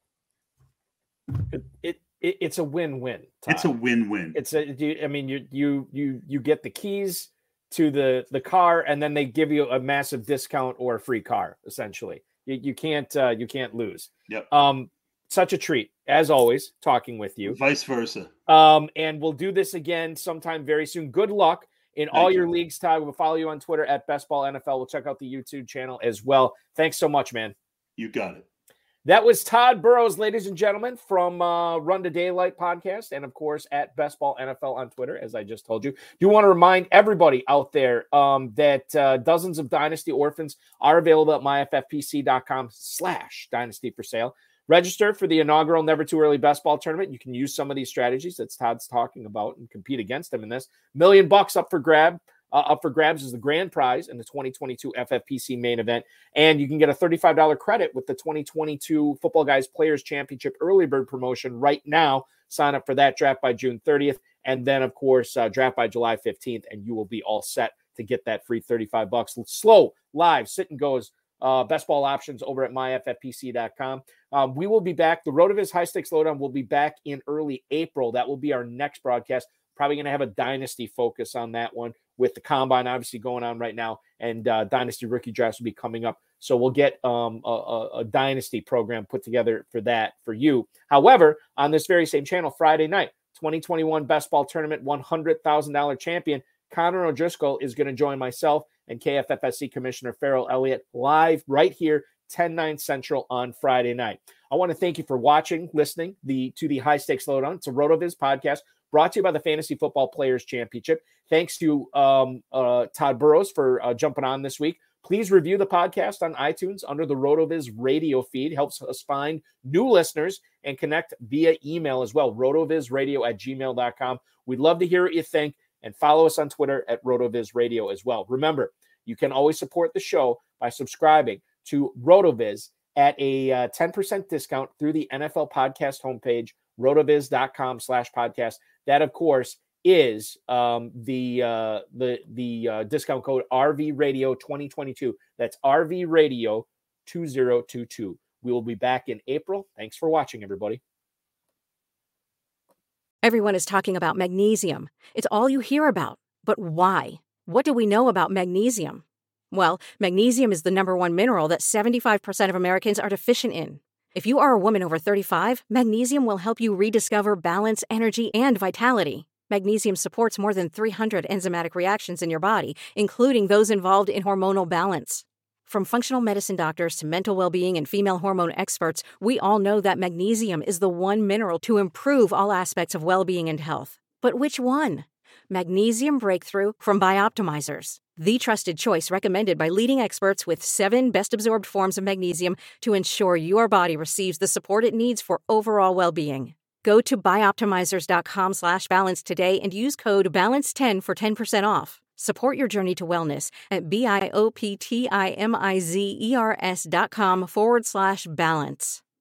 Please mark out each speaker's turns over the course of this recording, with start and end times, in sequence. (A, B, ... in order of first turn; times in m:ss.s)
0:01.4-0:03.7 A
0:03.5-0:04.4 B
0:04.3-0:17.6 A
0:17.4-0:18.3 B
0:18.5-0:27.5 A
0:22.1-0:22.4 B
0:28.0-0:28.4 B
0:29.0-2:30.8 A
2:33.2-3:29.0 C